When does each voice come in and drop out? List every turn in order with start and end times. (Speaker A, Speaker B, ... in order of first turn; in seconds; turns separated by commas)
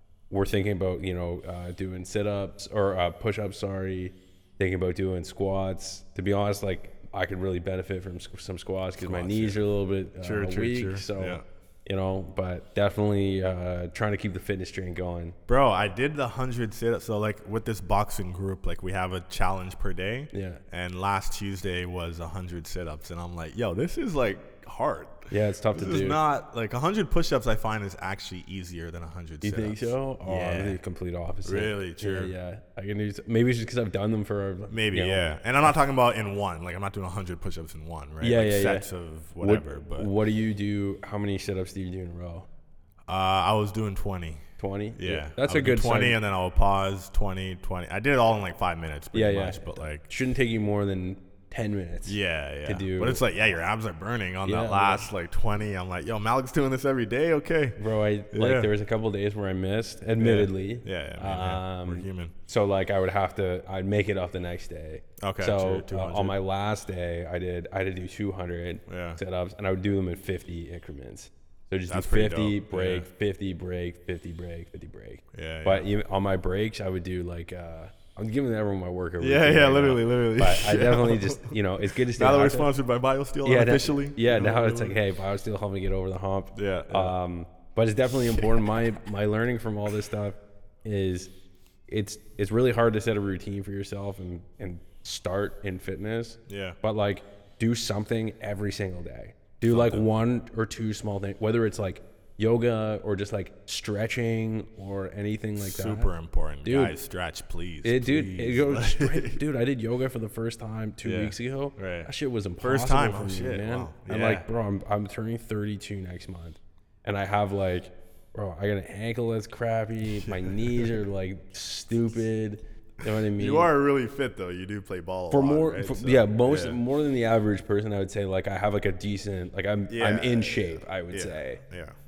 Speaker A: 0.3-15.3, Speaker B: 9.0-9.6, Speaker B: 10.2-11.4, Speaker B: 15.5-30.8, Speaker A: 20.3-20.6, Speaker A: 25.3-26.2, Speaker A: 29.4-35.7, Speaker B: 31.4-32.3, Speaker B: 34.7-40.1, Speaker A: 38.2-38.9, Speaker A: 39.4-42.5, Speaker B: 43.1-44.5, Speaker A: 44.6-46.2, Speaker B: 45.0-50.1, Speaker A: 49.1-53.2, Speaker B: 52.0-57.8, Speaker A: 54.5-55.1, Speaker A: 57.8-82.7, Speaker B: 58.3-58.7, Speaker B: 60.2-62.3, Speaker B: 65.2-66.3, Speaker B: 68.9-69.2, Speaker B: 71.9-73.1, Speaker B: 75.3-75.9, Speaker B: 79.2-81.5, Speaker B: 82.1-85.0, Speaker A: 83.4-91.3, Speaker B: 86.5-87.1, Speaker A: 91.9-106.1, Speaker B: 96.5-96.8, Speaker B: 99.7-100.0, Speaker B: 105.6-109.4, Speaker A: 106.6-106.9, Speaker A: 107.8-123.7, Speaker B: 111.0-112.1, Speaker B: 112.6-114.5, Speaker B: 120.2-121.0, Speaker B: 123.3-126.8, Speaker A: 125.3-131.6, Speaker B: 129.9-131.9